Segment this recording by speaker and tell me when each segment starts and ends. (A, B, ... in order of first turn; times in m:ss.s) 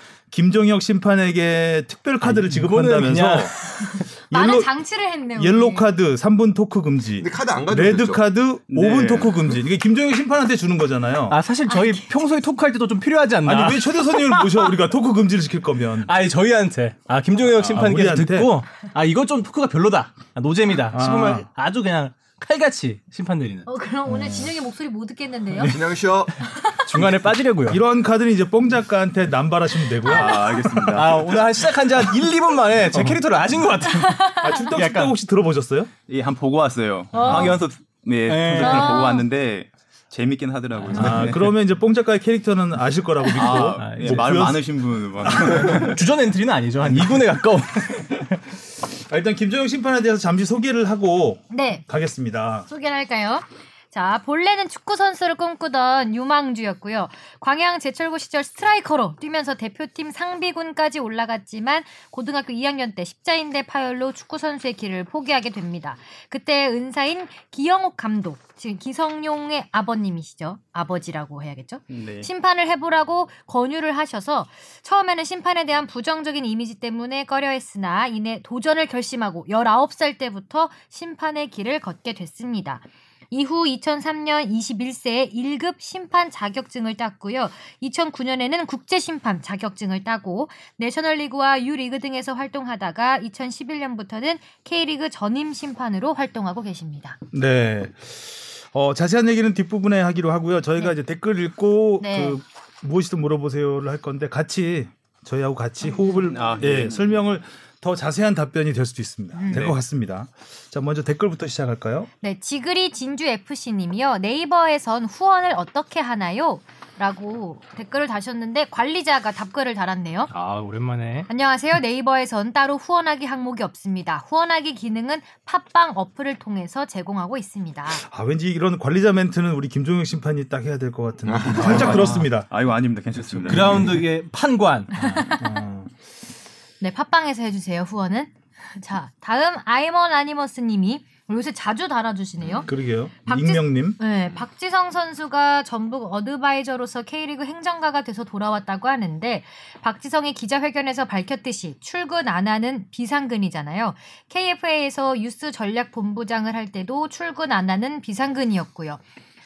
0:00.3-0:03.5 A
0:02.2-0:04.0 B
0:03.8-0:05.8 C
0:04.3-0:04.7 A
0:05.4-0:11.4 A
0:07.2-0:08.2 D
0:08.7-0:09.5 E
0:11.3-0:14.7 B
0:11.7-0:12.0 C
0:13.4-0:16.1 A
0:16.1-0:23.7 B
0:17.6-0:18.5 A
0:20.9-0:21.4 A
0:23.6-0:25.8 C
0:24.1-0:24.5 A
0:25.7-0:26.4 D
0:26.6-0:27.8 B
0:27.7-0:31.2 A
0:30.0-0:31.3 E
0:30.9-0:34.4 B
0:32.9-0:33.2 A
0:34.0-0:34.6 C
0:34.4-0:35.9 A
0:34.7-0:35.1 E
0:36.1-0:41.5 E
0:37.1-0:37.6 C
0:37.1-0:37.6 B
0:38.2-0:39.0 B
0:38.6-0:38.9 A
0:38.6-0:39.2 C
0:40.8-0:41.5 B
0:40.9-0:44.6 A
0:43.3-0:46.0 E
0:43.4-0:44.5 B
0:45.2-0:45.7 A
0:45.3-0:48.2 B
0:46.8-0:48.2 E
0:48.9-0:52.6 A
0:51.5-0:51.8 C
0:52.7-1:37.2 C
1:11.9-1:12.3 E
1:37.3-1:52.1 A
1:42.0-1:42.4 C
1:45.8-1:46.2 C
1:46.2-1:47.2 E
1:49.4-1:49.6 C
1:49.5-1:49.8 E
1:52.2-2:00.3 C
2:00.3-2:01.3 B
2:01.3-2:08.0 C
2:07.9-2:12.5 A
2:11.2-2:12.1 D
2:11.6-2:14.0 E
2:11.9-2:12.2 B
2:13.3-2:13.9 A
2:13.4-2:15.3 B
2:15.4-2:15.9 A
2:16.8-2:22.7 C
2:22.4-2:22.7 D
2:22.6-2:24.0 A
2:23.2-2:39.0 C